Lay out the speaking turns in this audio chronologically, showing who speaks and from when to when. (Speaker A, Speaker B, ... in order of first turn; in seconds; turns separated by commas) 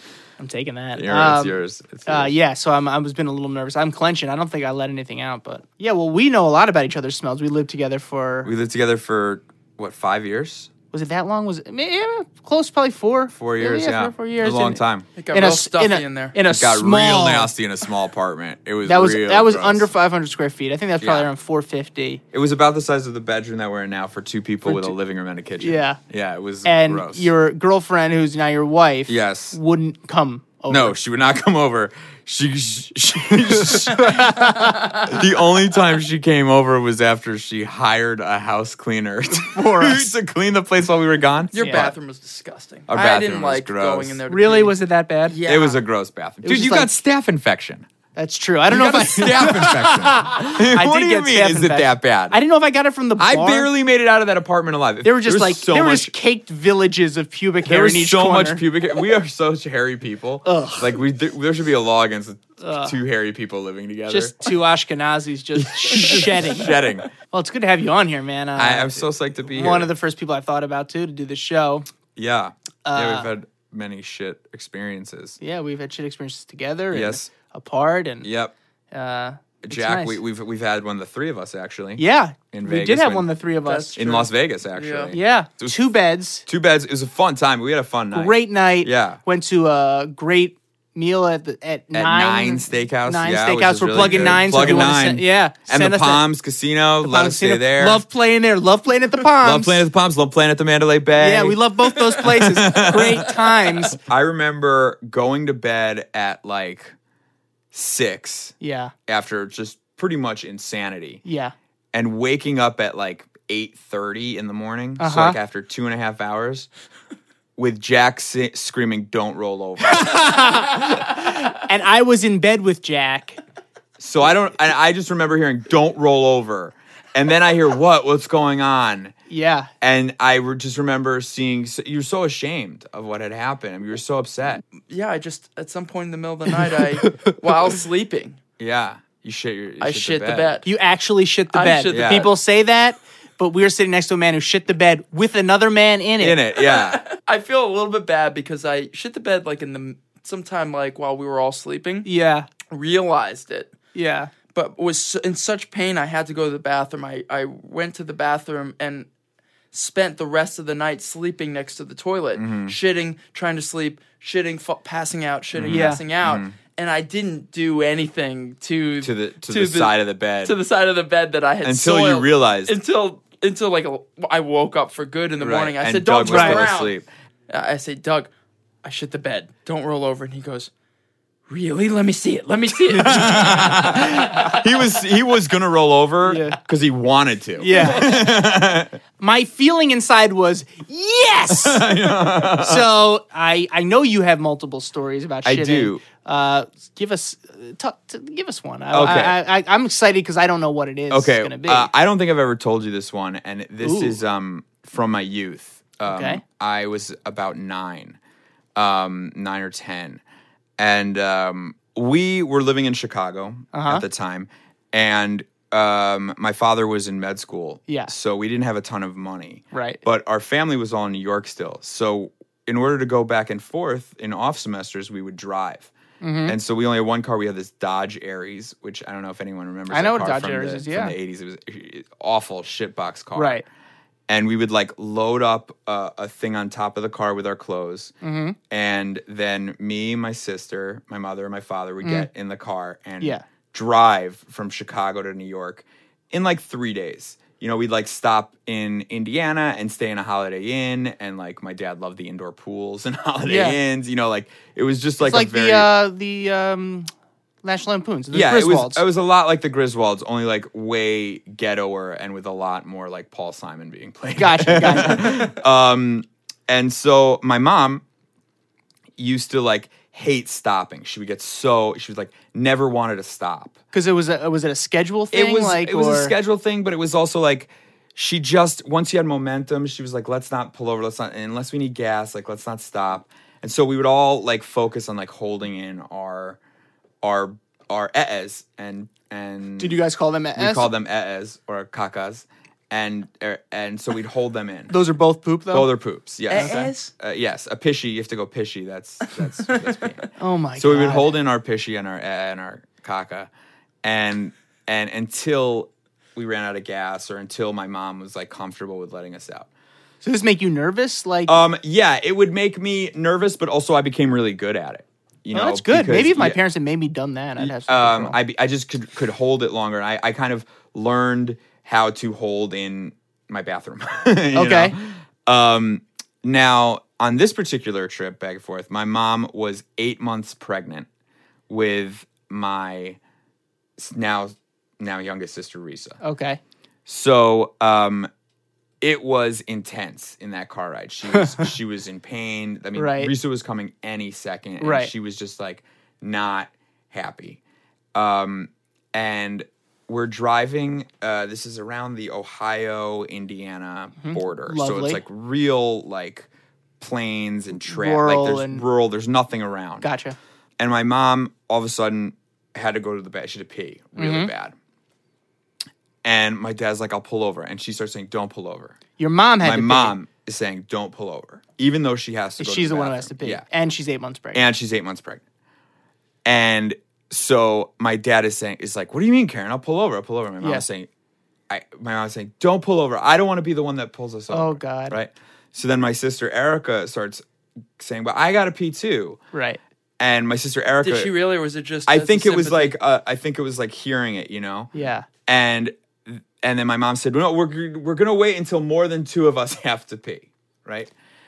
Speaker A: 0.4-8.5, Speaker B: 0.9-2.3, Speaker B: 8.4-10.7, Speaker A: 10.9-14.8, Speaker B: 13.3-15.1, Speaker C: 15.2-16.4, Speaker A: 15.3-17.5, Speaker B: 16.5-19.9, Speaker A: 18.8-22.2, Speaker B: 21.0-21.3, Speaker B: 22.3-27.3, Speaker A: 24.6-24.9, Speaker A: 25.6-26.0, Speaker A: 26.6-31.0, Speaker B: 29.1-29.6, Speaker B: 30.7-41.9, Speaker A: 33.5-35.1, Speaker A: 39.3-40.1, Speaker C: 41.5-44.7, Speaker A: 41.6-41.9, Speaker B: 42.9-44.2, Speaker A: 44.3-45.4, Speaker C: 45.2-45.8, Speaker B: 45.4-47.9, Speaker A: 46.4-46.9, Speaker A: 48.1-53.7, Speaker B: 48.7-52.4, Speaker B: 53.2-56.1, Speaker A: 55.0-58.6, Speaker B: 57.6-64.5, Speaker A: 60.4-61.0, Speaker A: 62.6-63.0, Speaker A: 64.1-71.8, Speaker B: 65.5-67.1, Speaker B: 68.5-69.9, Speaker B: 72.2-75.4, Speaker A: 72.8-73.3, Speaker A: 75.4-78.3, Speaker B: 76.9-77.3, Speaker B: 78.2-78.5, Speaker A: 78.9-80.2, Speaker B: 79.6-83.3, Speaker A: 82.0-84.0, Speaker C: 83.6-85.1, Speaker B: 84.0-85.8, Speaker A: 85.1-86.4, Speaker B: 86.5-89.2, Speaker A: 88.1-96.2, Speaker B: 91.9-98.0, Speaker A: 97.0-99.8, Speaker B: 99.4-106.9, Speaker A: 101.2-104.0, Speaker B: 107.7-108.5, Speaker A: 108.6-108.9, Speaker B: 109.1-111.2, Speaker A: 111.2-111.5, Speaker B: 111.9-116.7, Speaker A: 115.0-115.4, Speaker B: 117.6-120.5, Speaker A: 119.9-123.4, Speaker B: 124.0-129.1, Speaker A: 129.3-129.7, Speaker B: 129.8-134.6, Speaker C: 134.8-138.4, Speaker B: 138.6-140.6, Speaker C: 139.8-140.7, Speaker A: 140.6-146.4, Speaker C: 141.5-142.3, Speaker B: 141.9-142.3, Speaker B: 146.2-147.0, Speaker C: 146.6-152.1, Speaker A: 152.0-152.5, Speaker C: 152.7-153.7, Speaker A: 153.9-154.3, Speaker C: 154.5-159.1, Speaker C: 159.7-176.9, Speaker B: 162.3-162.8, Speaker B: 165.5-166.5, Speaker A: 165.7-166.0, Speaker B: 169.0-170.6, Speaker B: 171.6-172.8, Speaker B: 175.4-177.1, Speaker A: 176.2-176.7, Speaker C: 177.5-178.3, Speaker C: 178.8-180.7, Speaker C: 181.5-184.7, Speaker B: 183.0-189.0, Speaker A: 186.2-186.6, Speaker A: 187.6-188.1, Speaker C: 187.7-188.2, Speaker A: 189.2-201.9, Speaker B: 191.5-192.9, Speaker B: 195.4-196.0, Speaker B: 198.9-199.4, Speaker B: 201.1-208.2, Speaker A: 203.8-204.2, Speaker A: 206.1-206.4, Speaker B: 208.8-210.2, Speaker B: 210.8-225.9, Speaker A: 213.7-214.0, Speaker A: 219.7-220.0, Speaker A: 226.2-226.5, Speaker B: 226.4-233.6, Speaker A: 229.9-231.1, Speaker A: 233.3-233.6, Speaker B: 234.3-238.1, Speaker A: 238.2-238.6, Speaker B: 238.7-255.9, Speaker A: 242.0-242.3, Speaker A: 253.4-253.8, Speaker A: 255.2-257.1, Speaker A: 257.6-259.0, Speaker B: 258.3-268.0, Speaker A: 264.4-265.5, Speaker B: 269.2-273.8, Speaker A: 273.9-276.3, Speaker B: 275.3-286.6, Speaker B: 287.2-290.0, Speaker A: 289.8-290.9, Speaker B: 290.6-294.9, Speaker A: 294.9-295.9, Speaker B: 295.7-300.2, Speaker C: 296.5-297.1, Speaker A: 296.5-296.9, Speaker C: 299.4-300.2, Speaker A: 300.4-301.3, Speaker B: 300.8-303.5, Speaker B: 304.0-309.7, Speaker A: 310.2-311.6, Speaker B: 311.5-316.6, Speaker A: 315.5-318.4, Speaker B: 317.6-331.1, Speaker A: 324.5-325.0, Speaker B: 331.7-333.2, Speaker B: 334.0-336.2, Speaker A: 336.2-336.6, Speaker B: 337.1-338.3, Speaker B: 339.0-347.6, Speaker A: 342.9-343.3, Speaker A: 344.8-345.1, Speaker B: 348.1-356.5, Speaker A: 354.2-355.2, Speaker B: 357.0-360.1, Speaker A: 357.9-358.8, Speaker A: 360.0-360.4, Speaker B: 360.8-364.7, Speaker A: 364.2-364.5, Speaker B: 366.2-369.0, Speaker A: 369.2-370.1, Speaker B: 369.6-373.6, Speaker A: 372.6-374.6, Speaker B: 374.5-375.4, Speaker B: 376.4-381.1, Speaker B: 381.7-387.4, Speaker A: 384.5-385.1, Speaker B: 388.0-389.4, Speaker A: 389.5-389.8, Speaker B: 390.2-391.3, Speaker C: 391.0-392.9, Speaker B: 392.1-394.9, Speaker A: 394.9-395.3, Speaker B: 395.4-401.1